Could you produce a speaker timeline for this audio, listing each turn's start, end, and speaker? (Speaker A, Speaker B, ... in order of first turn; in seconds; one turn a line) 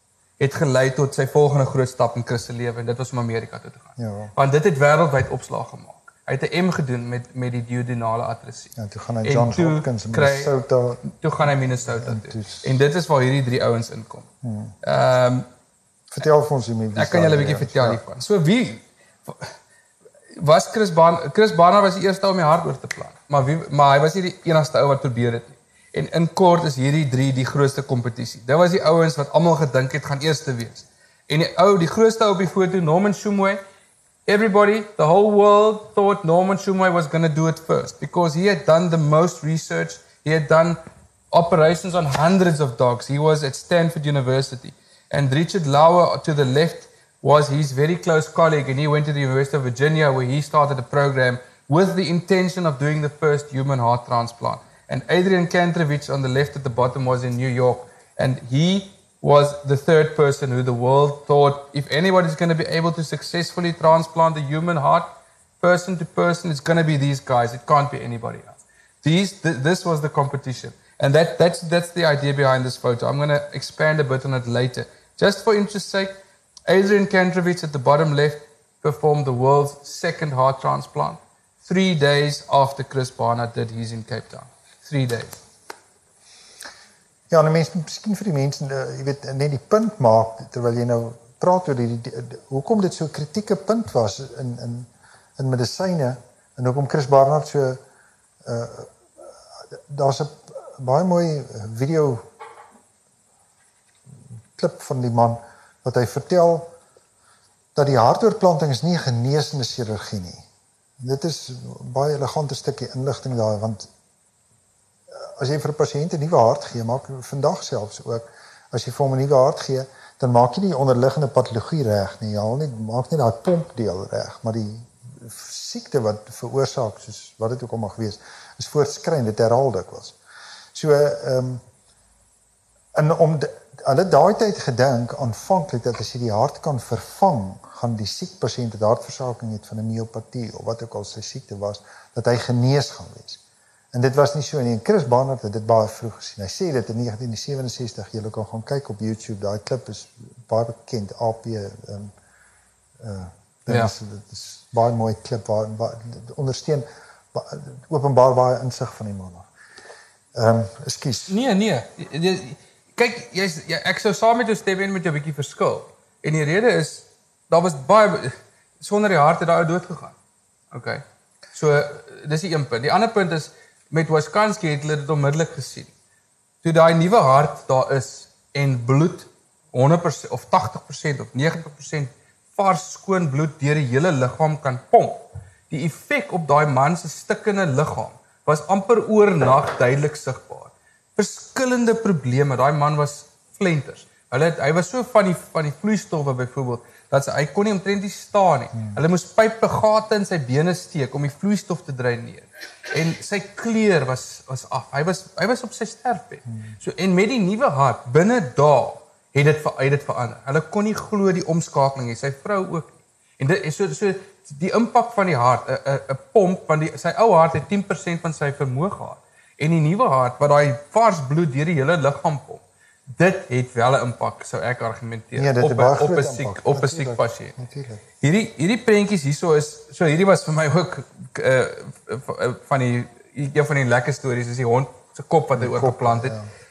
Speaker A: 0.4-14.3
Speaker B: 4.0-4.3
Speaker B: 8.8-11.0
Speaker B: 11.9-12.7
Speaker B: 14.4-14.7
Speaker A: 14.8-15.5
Speaker B: 16.1-18.0
Speaker A: 16.9-19.5
Speaker A: 20.4-33.6
Speaker A: 34.2-40.8
Speaker A: 41.3-76.2
Speaker A: 76.7-85.3
Speaker B: 87.3-97.8
Speaker B: 98.4-98.9
Speaker B: 99.8-102.2
Speaker B: 104.5-106.7
Speaker B: 107.7-110.4
Speaker B: 111.0-113.9
Speaker B: 115.1-130.2
Speaker B: 130.7-131.6
Speaker B: 132.9-143.4
Speaker B: 143.9-152.1
Speaker B: 153.0-159.5
Speaker A: 153.7-153.9
Speaker B: 160.3-161.3
Speaker A: 161.3-170.2
Speaker A: 170.7-171.0
Speaker A: 171.5-175.9
Speaker A: 176.6-222.6
Speaker A: 223.1-227.6
Speaker B: 225.3-228.0
Speaker A: 228.2-236.3
Speaker B: 235.6-236.4